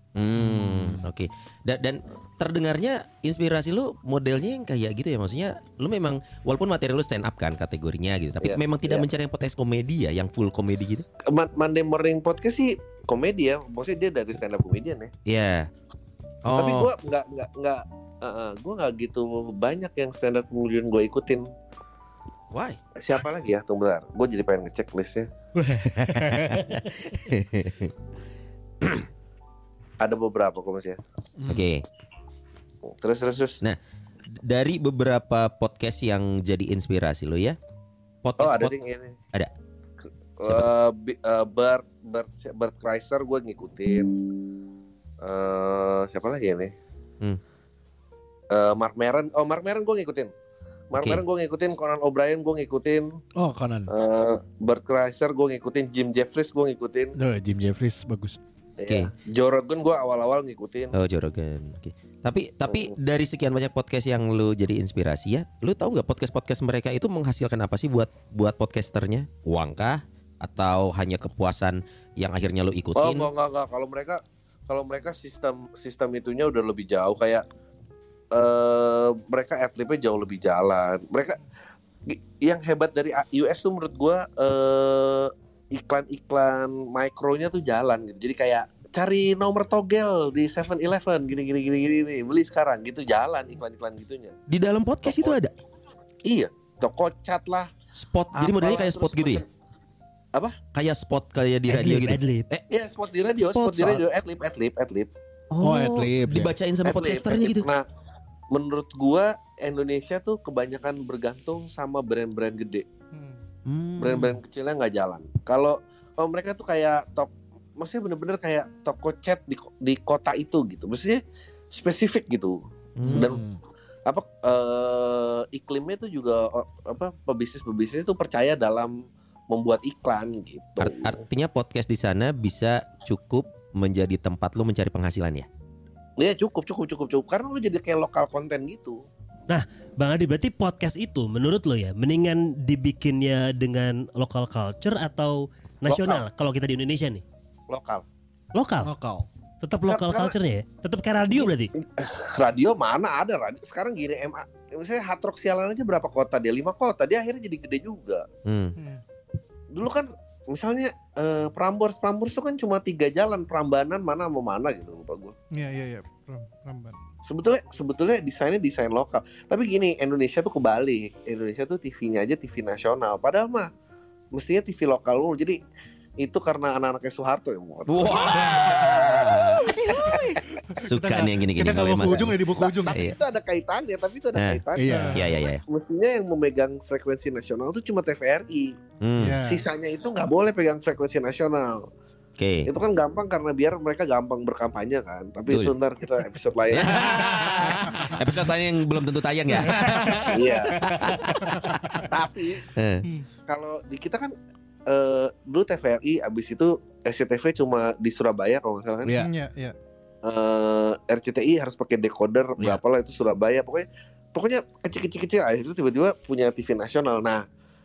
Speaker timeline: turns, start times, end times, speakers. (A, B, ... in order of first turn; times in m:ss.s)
0:00.2-0:11.0 A
0:00.4-0:01.1 B
0:08.4-0:09.1 C
0:11.3-0:15.1 C
0:15.3-0:15.7 A
0:16.4-0:16.9 A
0:16.5-0:21.5 C
0:22.5-0:22.8 A
0:23.0-0:25.3 C
0:25.6-0:26.9 D
0:25.9-0:27.9 A
0:30.0-0:31.0 C
0:31.4-0:31.7 B
0:31.5-0:31.8 A
0:32.8-0:33.6 C
0:34.4-0:37.6 A
0:38.2-0:38.7 A
0:38.4-0:39.2 C
0:40.4-0:44.1 C
0:40.4-0:40.7 A
0:45.2-0:46.7 C
0:48.5-0:50.3 C
0:50.9-0:53.2 C
0:51.0-0:51.2 A
0:53.4-0:53.9 B
0:53.9-0:57.2 C
0:57.2-0:58.4 B
0:58.8-1:01.0 C
1:00.9-1:13.3 A
1:02.7-1:02.9 C
1:13.0-1:17.4 C
1:18.3-1:21.4 C
1:22.1-1:34.4 C
1:34.5-1:35.5 A
1:35.1-1:35.4 C
1:36.3-1:37.7 C
1:38.0-1:39.4 A
1:38.3-1:39.5 C
1:40.7-1:42.6 A
1:41.7-1:42.5 D
1:42.7-1:45.1 C
1:43.4-1:44.0 A
1:45.5-1:47.7 A
1:45.6-1:46.5 B
1:46.8-1:47.8 C
1:48.5-1:52.9 C
1:53.1-1:53.4 E
1:53.7-1:54.4 A
1:54.0-2:03.4 C
2:03.0-2:03.4 A
2:03.0-2:03.6 B
2:04.1-2:11.2 C
2:10.8-2:15.5 A
2:16.2-2:19.0 C
2:19.5-2:27.2 D
2:25.9-2:26.2 C
2:27.7-2:28.0 C
2:28.5-2:28.9 D
2:28.8-2:29.3 B
2:29.6-2:31.7 D
2:29.9-2:30.3 C
2:31.3-2:38.3 C
2:38.5-2:38.8 A
2:39.7-2:45.4 C
2:45.5-2:47.0 E
2:47.3-2:53.7 C
2:54.3-2:55.6 C
2:56.2-2:59.5 C
2:57.9-3:00.2 A
2:59.8-3:03.0 E
3:00.0-3:00.4 C
3:00.8-3:03.2 A
3:02.6-3:08.8 C
3:04.4-3:05.6 A
3:04.8-3:05.2 B
3:09.0-3:09.4 A
3:09.2-3:09.7 E
3:09.4-3:11.9 C
3:12.4-3:12.7 A
3:12.7-3:17.3 C
3:15.5-3:15.7 A
3:16.7-3:22.1 A
3:20.3-3:21.1 C
3:22.0-3:22.7 C
3:22.7-3:23.1 A
3:23.5-3:24.3 C
3:24.9-3:29.2 C
3:29.0-3:29.3 B
3:29.2-3:29.8 E
3:30.2-3:37.4 C